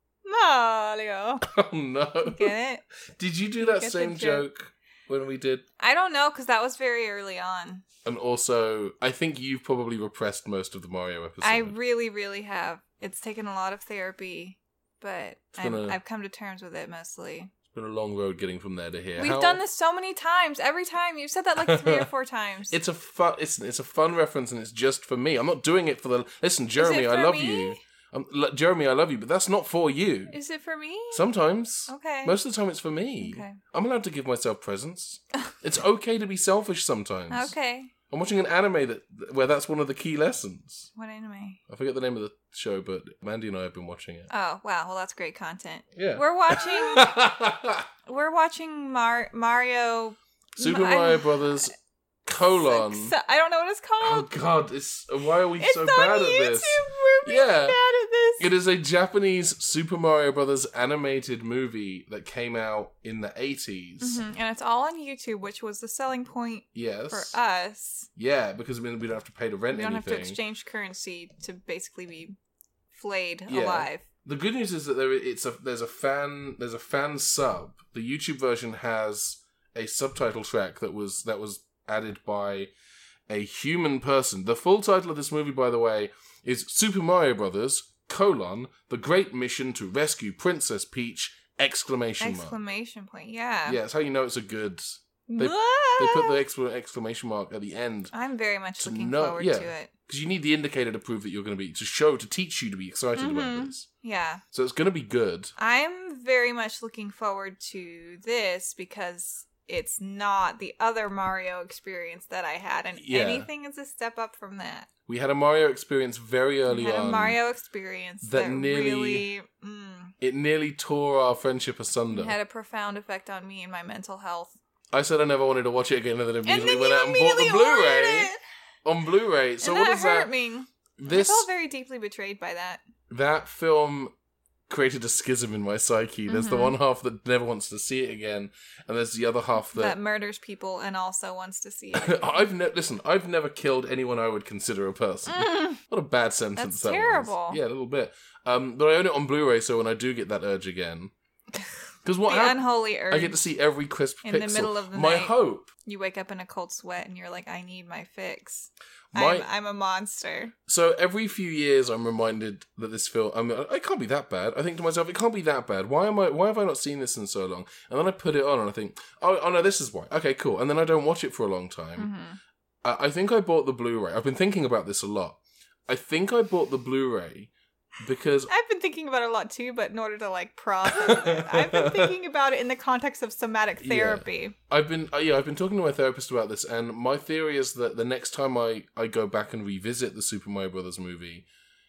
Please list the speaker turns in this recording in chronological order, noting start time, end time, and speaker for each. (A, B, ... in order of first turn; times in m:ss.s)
0:00.2-0:01.4 A
0:01.4-0:02.5 B
0:02.2-0:02.8 A
0:03.2-0:05.6 B
0:03.6-0:04.4 A
0:05.8-0:07.8 A
0:08.0-0:11.7 B
0:11.4-0:17.5 A
0:15.6-0:16.0 B
0:17.7-0:19.6 B
0:19.2-0:22.8 A
0:21.6-0:22.1 B
0:22.7-0:30.3 B
0:26.8-0:27.8 A
0:30.3-0:31.3 A
0:31.1-0:37.5 B
0:31.9-0:32.4 A
0:33.2-0:33.6 A
0:37.3-0:37.9 A
0:38.1-0:40.9 B
0:40.9-0:41.6 A
0:41.7-0:44.3 B
0:44.3-0:47.1 A
0:45.9-0:47.9 B
0:48.1-0:51.7 A
0:50.6-0:51.7 B
0:52.2-0:53.1 B
0:52.4-0:54.3 A
0:54.0-0:57.8 B
0:55.6-0:58.5 A
0:58.4-1:04.2 B
1:04.0-1:08.1 A
1:06.7-1:07.3 B
1:08.2-1:10.4 B
1:09.7-1:12.4 A
1:12.9-1:14.0 A
1:13.5-1:22.7 B
1:23.3-1:32.6 B
1:32.2-1:33.8 A
1:33.7-1:38.1 B
1:35.3-1:36.4 A
1:38.1-1:39.9 A
1:38.8-1:43.8 B
1:43.2-1:44.4 A
1:44.5-1:45.5 B
1:45.6-1:54.9 A
1:53.0-1:53.5 B
1:55.1-1:57.4 B
1:56.7-2:00.1 A
1:58.2-1:59.3 B
2:00.2-2:02.4 B
2:02.1-2:04.6 A
2:04.9-2:08.3 B
2:06.4-2:08.4 A
2:08.8-2:10.3 B
2:09.6-2:12.8 A
2:11.0-2:11.5 B
2:13.1-2:14.1 B
2:14.7-2:20.0 B
2:16.3-2:16.8 A
2:19.7-2:22.4 A
2:21.9-2:31.1 B
2:25.3-2:25.8 A
2:26.6-2:27.6 A
2:32.0-2:35.7 B
2:32.3-2:33.4 A
2:34.2-2:40.5 A
2:39.1-2:39.5 B
2:40.7-2:52.1 B
2:52.0-2:52.4 A
2:52.8-2:58.5 B
2:58.5-3:04.5 A
3:00.9-3:02.1 B
3:03.8-3:11.4 B